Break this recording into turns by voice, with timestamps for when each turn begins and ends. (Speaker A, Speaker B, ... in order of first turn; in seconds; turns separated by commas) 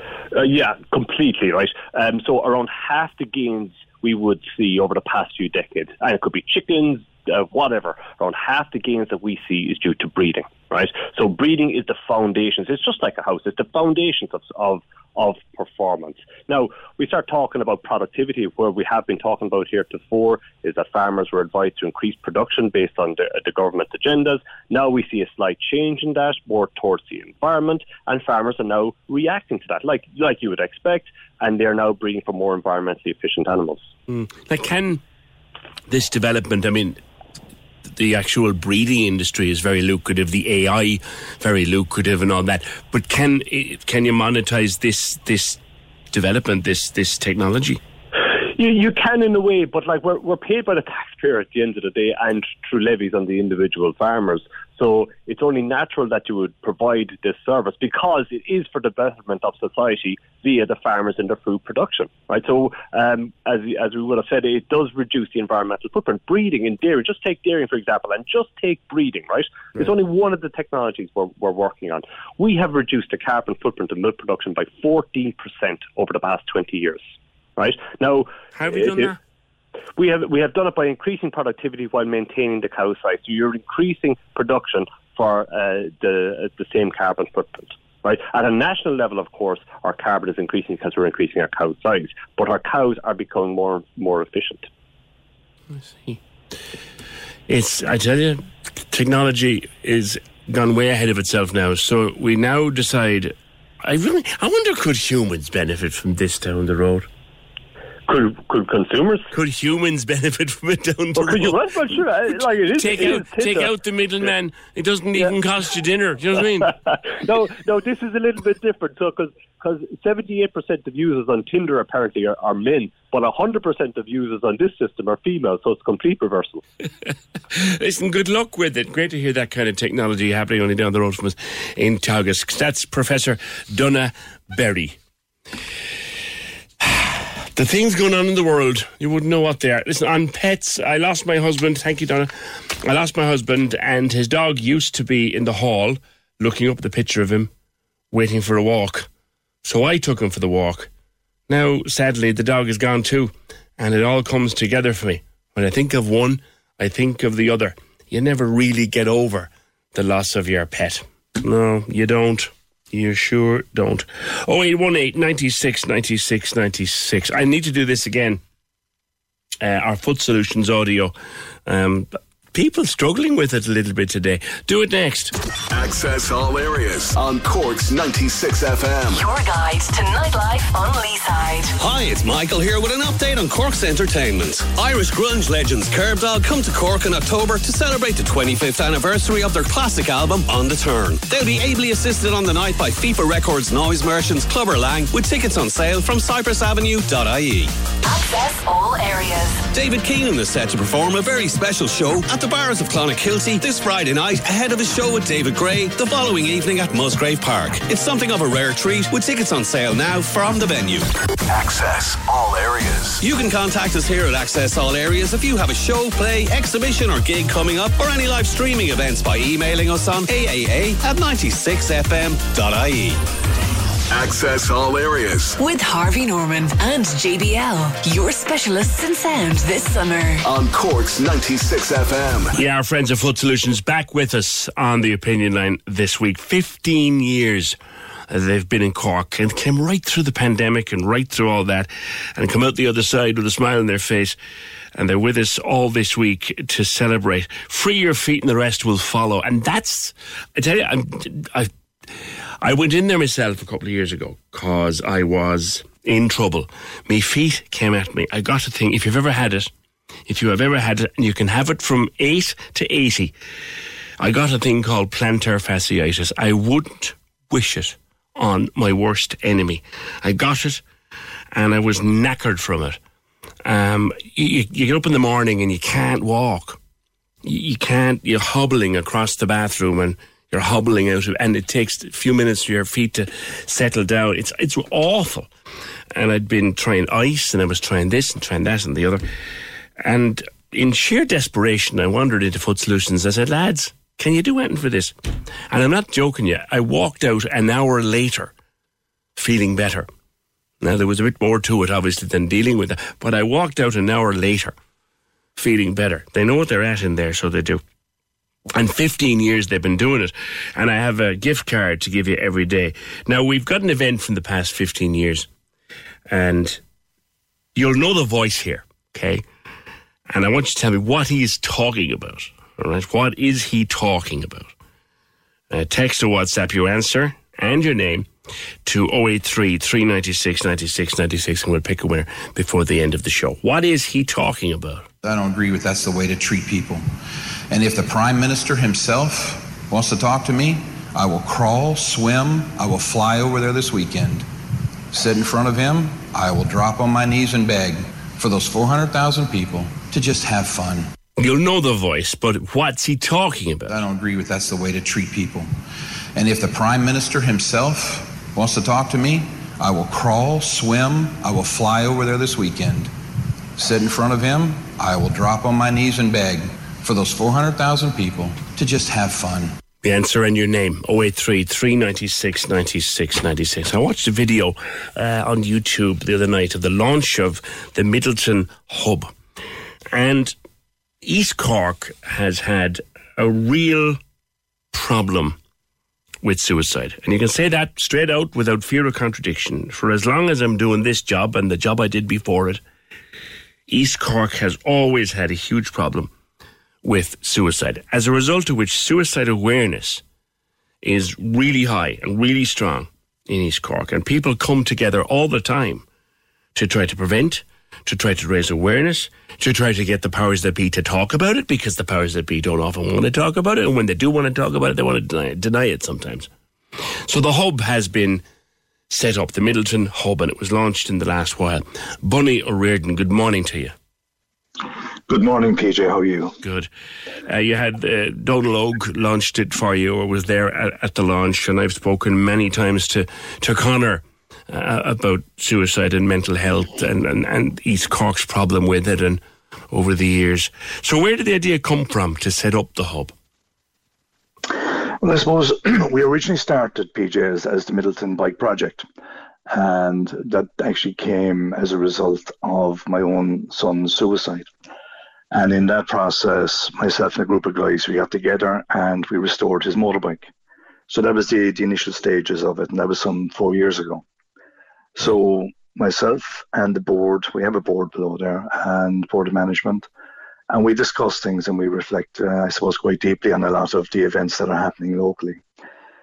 Speaker A: 0.3-33.9, Speaker B: 34.1-35.0, Speaker B: 35.9-37.0, Speaker B: 37.9-45.6, Speaker B: 46.1-47.8, Speaker A: 48.5-77.0, Speaker A: 77.6-79.1, Speaker B: 78.5-79.2, Speaker A: 80.0-94.7, Speaker B: 95.7-96.2, Speaker B: 97.5-107.1, Speaker A: 108.1-109.3, Speaker B: 109.3-112.0, Speaker A: 111.2-113.7, Speaker B: 112.7-116.7, Speaker A: 116.6-126.6, Speaker B: 127.5-134.9, Speaker B: 136.8-147.5, Speaker B: 148.1-149.1, Speaker B: 149.6-150.9, Speaker B: 151.5-168.4, Speaker B: 169.6-171.1, Speaker B: 171.7-175.3, Speaker C: 175.7-179.2, Speaker D: 179.1-181.7, Speaker E: 181.8-197.7, Speaker D: 198.0-199.6, Speaker E: 199.7-211.1, Speaker C: 211.5-213.2, Speaker E: 213.2-223.2, Speaker C: 224.1-225.6, Speaker D: 225.6-230.4, Speaker C: 230.4-232.6, Speaker B: 232.6-237.8, Speaker B: 238.3-244.3, Speaker B: 244.9-251.7, Speaker B: 252.6-259.7, Speaker B: 260.3-263.3, Speaker B: 264.2-270.8, Speaker B: 271.5-273.0, Speaker B: 273.6-276.8, Speaker B: 277.4-285.5, Speaker B: 286.1-289.2, Speaker B: 290.0-295.1, Speaker B: 295.7-298.5, Speaker B: 299.4-300.1, Speaker B: 300.8-304.7, Speaker B: 305.6-307.8, Speaker B: 308.7-315.5, Speaker B: 316.3-316.8, Speaker B: 317.8-319.4, Speaker B: 320.3-324.7, Speaker B: 325.7-328.3, Speaker B: 328.8-335.1, Speaker F: 335.2-337.1, Speaker F: 337.7-344.4, Speaker F: 345.1-351.1, Speaker B: 351.4-353.9, Speaker F: 353.9-355.7, Speaker F: 356.3-363.1, Speaker F: 363.8-369.8, Speaker B: 370.0-379.3, Speaker B: 380.1-380.5, Speaker B: 381.2-384.2, Speaker B: 384.9-385.6, Speaker B: 386.4-392.8, Speaker B: 393.9-396.3, Speaker B: 397.0-400.2, Speaker B: 401.0-406.0, Speaker B: 406.8-416.5, Speaker B: 417.3-418.4, Speaker B: 419.1-423.9, Speaker G: 425.3-426.6, Speaker B: 426.6-426.9, Speaker B: 427.4-443.3, Speaker G: 444.7-449.1, Speaker G: 449.7-454.7, Speaker G: 455.5-460.5, Speaker G: 461.1-464.2, Speaker G: 465.1-470.1, Speaker G: 470.7-475.6